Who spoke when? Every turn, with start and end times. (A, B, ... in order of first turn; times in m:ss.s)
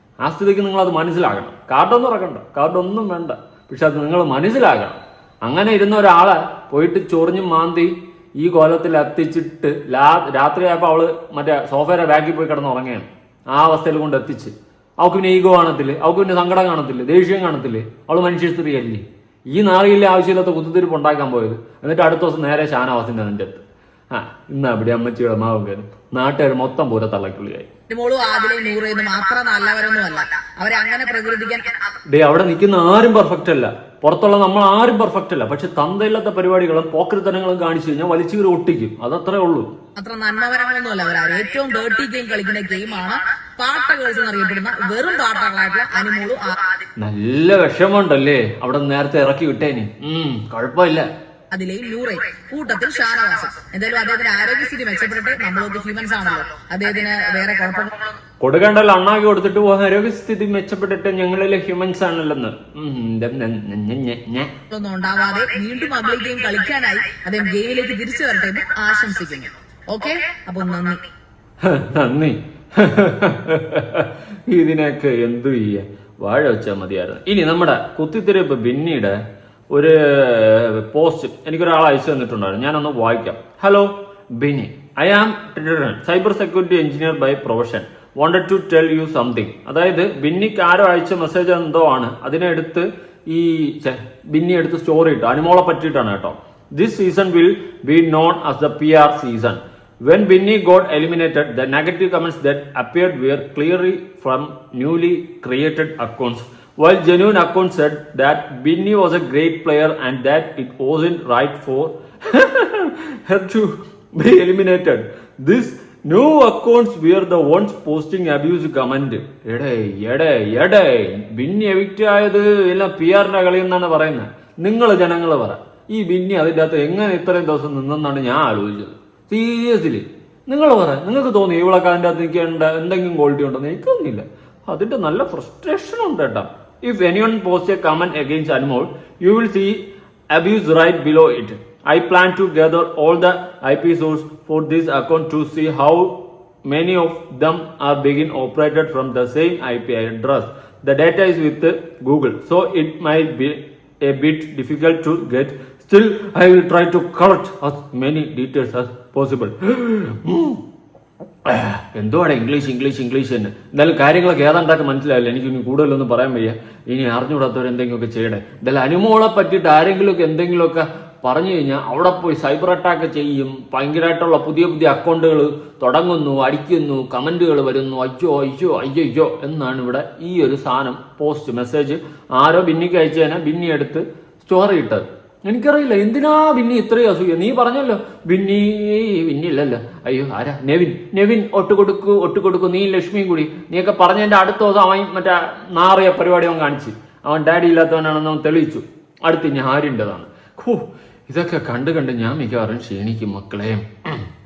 0:00.2-0:27.7 A
0:27.9-0:32.0 B
0:32.1-0:39.7 A
0:40.0-0:46.8 B
0:47.0-0:51.1 A
0:51.5-0:58.1 B
0:58.4-1:04.5 A
1:04.7-1:11.0 B
1:11.6-1:19.2 A
1:19.7-2:40.6 A
2:41.4-3:24.3 A